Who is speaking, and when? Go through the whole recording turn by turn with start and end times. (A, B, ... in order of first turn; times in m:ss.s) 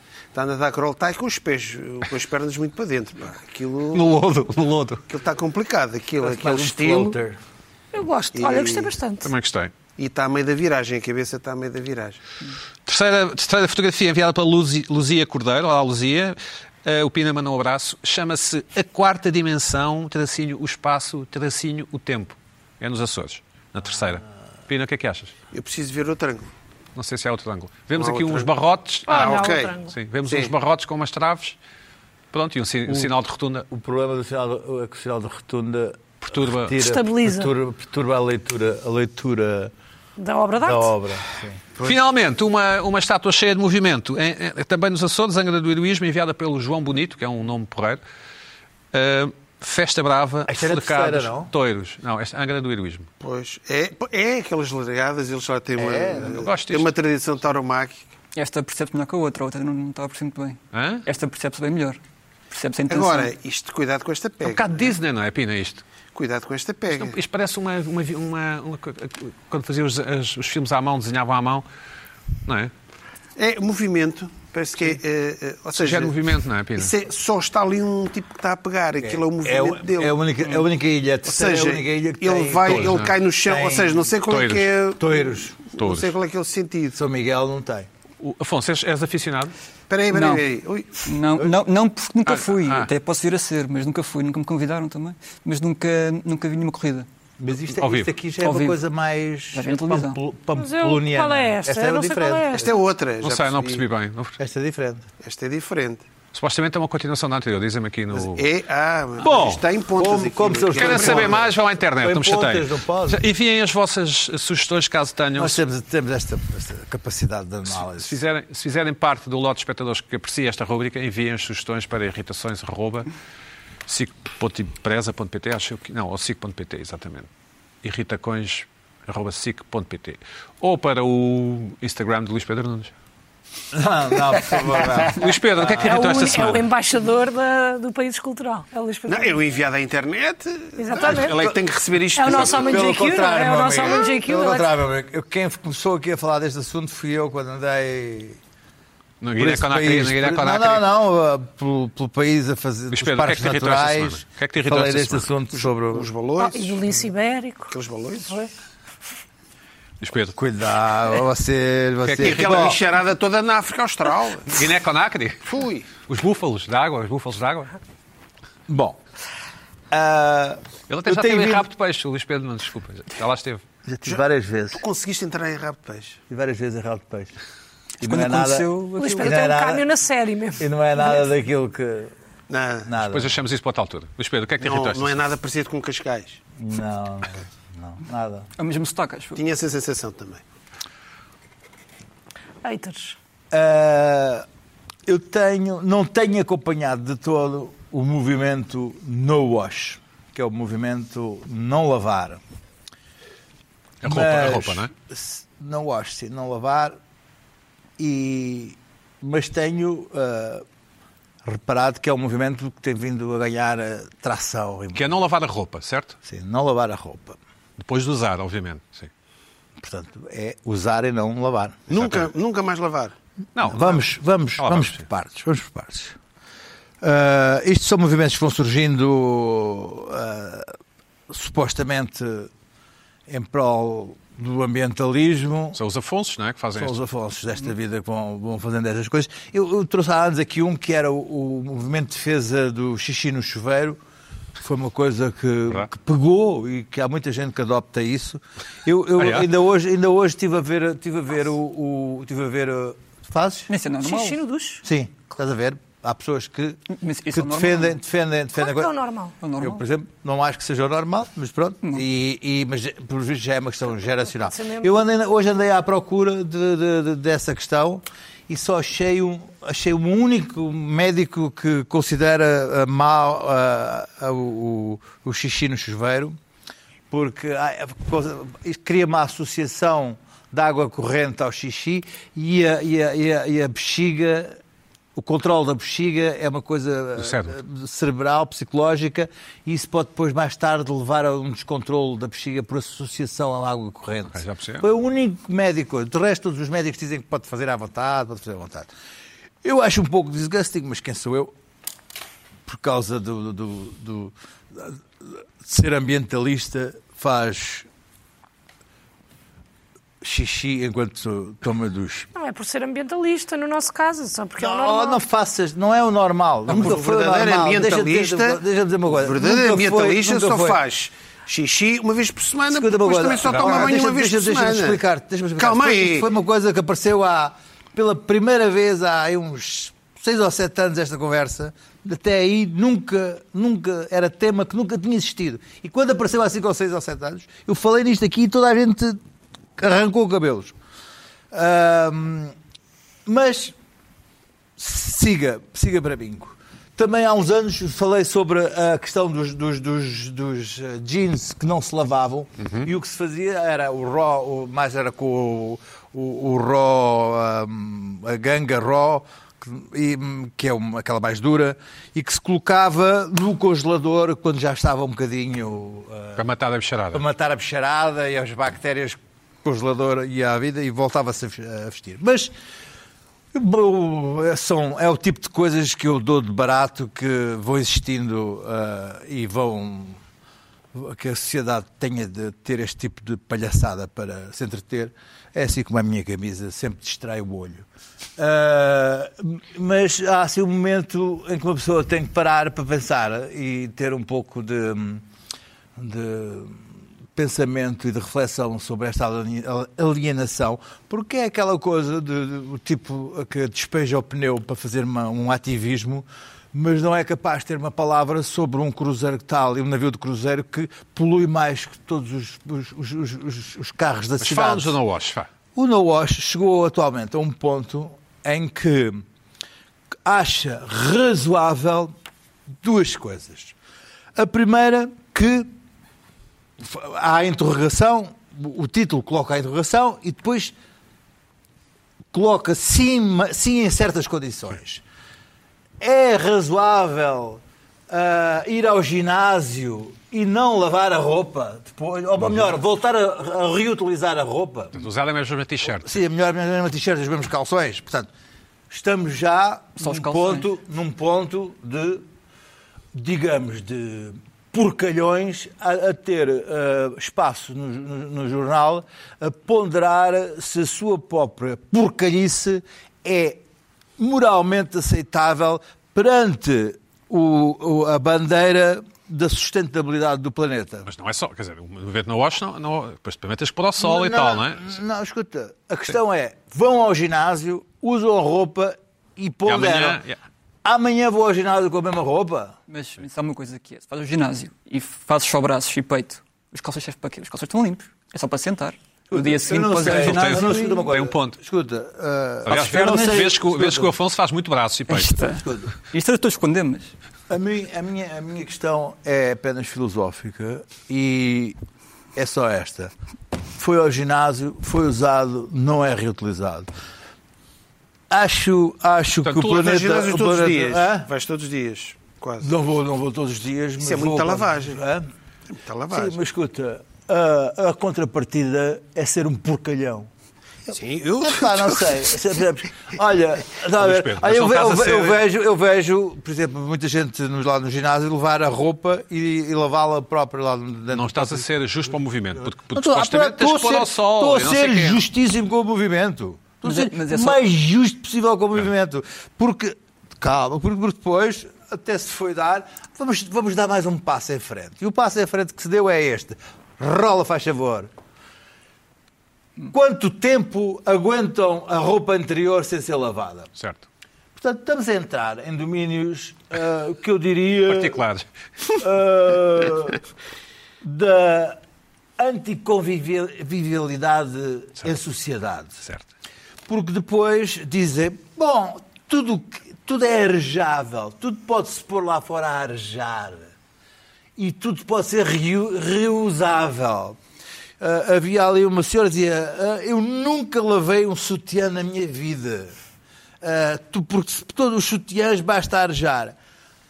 0:00.3-0:04.0 A
0:03.9-0:05.0 B
0:05.1-0:07.2 A
0:06.2-0:07.4 C
0:07.9-0:09.3 D
0:08.3-0:08.9 A
0:09.2-0:09.7 B
0:10.0-0:12.2 A
0:12.8-0:25.3 B
0:25.5-0:26.5 A
0:26.9-0:31.6 B
0:28.0-0:28.5 A
0:29.1-0:29.9 D
0:29.1-0:29.8 A
0:32.3-0:33.7 B
0:32.9-0:33.1 C
0:33.7-0:39.7 C
0:36.2-0:36.8 B
0:36.8-0:37.5 D
0:40.2-0:40.9 D
0:40.6-0:42.0 C
0:41.8-0:48.0 B
0:48.9-0:53.1 B
0:50.5-0:51.5 C
0:53.2-0:58.0 A
0:55.8-0:56.4 C
0:56.2-0:56.9 B
0:58.3-1:03.3 E
1:00.7-1:01.0 B
1:02.9-1:04.9 A
1:04.4-1:05.8 B
1:06.1-1:07.2 A
1:06.9-1:11.6 B
1:12.4-1:12.7 B
1:13.4-1:20.6 A
1:15.7-1:16.9 B
1:19.0-1:24.1 C
1:21.2-1:27.0 A
1:22.6-1:23.2 B
1:24.3-1:24.7 B
1:25.0-1:25.6 C
1:25.8-1:26.1 B
1:26.9-1:27.9 C
1:28.2-1:29.5 B
1:29.9-1:31.1 A
1:30.1-1:30.4 E
1:31.0-1:37.1 E
1:32.3-1:32.9 B
1:37.4-1:42.7 C
1:37.7-1:38.1 B
1:38.4-1:38.8 E
1:39.5-1:40.2 E
1:40.5-1:42.7 D
1:42.6-1:43.8 A
1:43.2-1:44.4 B
1:44.4-1:45.1 C
1:45.2-1:46.0 A
1:46.3-1:48.4 B
1:48.1-1:51.4 A
1:49.2-1:49.6 B
1:50.0-1:53.2 C
1:50.7-1:55.6 B
1:55.4-1:58.2 C
1:57.7-2:03.1 B
2:03.9-2:07.3 B
2:07.8-2:12.9 B
2:13.7-2:16.3 C
2:14.3-2:14.8 A
2:15.0-2:16.7 B
2:15.8-2:19.4 D
2:19.1-2:22.9 A
2:20.8-2:21.6 D
2:21.0-2:21.6 C
2:22.1-2:24.7 D
2:22.3-2:28.4 C
2:29.2-2:30.8 B
2:29.4-2:36.1 C
2:32.9-2:35.3 B
2:35.9-2:37.0 A
2:36.4-2:38.5 D
2:37.7-2:38.4 A
2:40.0-2:40.4 B
2:40.4-2:42.8 C
2:42.0-2:42.7 B
2:42.2-2:44.6 A
2:44.5-2:47.7 B
2:45.4-2:45.9 A
2:48.7-2:49.0 C
2:49.9-2:51.7 C
2:50.9-2:53.6 B
2:53.8-2:54.8 C
2:54.0-2:56.2 A
2:56.3-2:57.3 C
2:58.0-2:59.8 C
2:58.0-2:59.4 E
2:59.0-3:01.3 D
3:00.6-3:02.1 C
3:02.5-3:02.9 A
3:02.8-3:03.4 C
3:03.0-3:05.2 B
3:04.6-3:06.4 A
3:06.6-3:08.5 C
3:08.6-3:09.4 E
3:09.3-3:10.4 A
3:12.6-3:13.2 D
3:13.5-3:14.4 C
3:15.0-3:22.4 C
3:24.0-3:24.9 B
3:24.0-3:27.0 C
3:28.0-3:30.6 C
3:31.4-3:35.0 C
3:34.9-3:36.2 B
3:36.2-3:37.4 C
3:37.8-3:39.1 B
3:39.8-3:41.9 C
3:41.9-3:43.1 A
3:41.9-3:42.3 B
3:43.6-3:45.1 B
3:43.6-3:46.2 C
3:47.0-3:50.8 C
3:51.3-3:52.5 C
3:53.3-3:55.8 C
3:55.7-3:57.0 B
3:56.7-4:04.0 C
4:04.6-4:13.7 C
4:09.2-4:09.5 B
4:13.7-4:14.4 E
4:14.0-4:14.8 D
4:14.8-4:16.8 C
4:16.9-4:18.0 E
4:17.3-4:18.9 C
4:18.6-4:19.3 D
4:19.4-4:19.8 E
4:19.6-4:36.4 C
4:24.3-4:24.9 D
4:37.1-4:44.6 C
4:45.2-4:58.9 C
4:47.2-4:47.6 B
4:54.3-4:54.8 B
4:59.6-5:01.5 C
5:02.6-5:07.9 C
5:10.2-5:12.3 C
5:12.3-5:15.2 D
5:14.6-5:20.8 C
5:16.7-5:18.6 A
5:19.1-5:25.0 A
5:22.7-5:39.2 C
5:25.6-5:26.3 A
5:39.8-5:40.7 C
5:41.5-5:42.5 C
5:43.2-5:43.7 C
5:44.8-6:06.4 C
6:06.4-6:07.2 B
6:07.1-6:12.5 C
6:13.5-6:20.2 C
6:20.9-6:27.8 C
6:28.4-6:35.2 C
6:36.0-6:36.8 C
6:37.4-6:55.0 C
6:54.4-6:55.5 B
6:55.7-6:59.2 C
7:00.2-7:02.1 C
7:02.8-7:03.7 C
7:04.3-7:05.7 C
7:06.8-7:10.7 C
7:12.3-7:15.0 C
7:16.0-7:25.0 C
7:24.9-7:26.2 B
7:25.9-7:28.3 C
7:28.9-7:32.2 C
7:30.0-7:30.7 E
7:33.1-7:43.6 C
7:44.2-7:51.1 C
7:51.0-7:54.9 B
7:54.0-8:00.2 C
7:59.6-8:00.4 B
8:00.8-8:02.7 C
8:02.9-8:11.1 E
8:09.3-8:14.1 C
8:10.0-8:11.6 B
8:12.6-8:15.4 B
8:15.1-8:17.1 E
8:15.4-8:15.9 C
8:17.5-8:21.8 C
8:22.3-8:23.1 C
8:23.8-8:26.9 C
8:28.3-8:31.3 C
8:29.4-8:29.8 B
8:29.6-8:32.7 A
8:32.6-8:35.2 C
8:34.0-8:35.0 A
8:35.7-8:36.4 A
8:36.1-8:40.3 C
8:40.9-8:42.2 A
8:41.4-8:51.7 C
8:44.0-8:45.4 B
8:51.1-8:55.2 B
8:52.9-9:08.1 C
8:56.8-8:57.6 E
9:09.8-9:13.7 C
9:13.8-9:14.0 B
9:14.6-9:18.2 C
9:17.9-9:18.5 B
9:19.0-9:20.2 C
9:21.0-9:21.8 C
9:22.4-9:26.0 C
9:26.9-9:33.7 C
9:34.6-9:37.4 C
9:38.0-9:42.9 C
9:43.6-9:46.6 C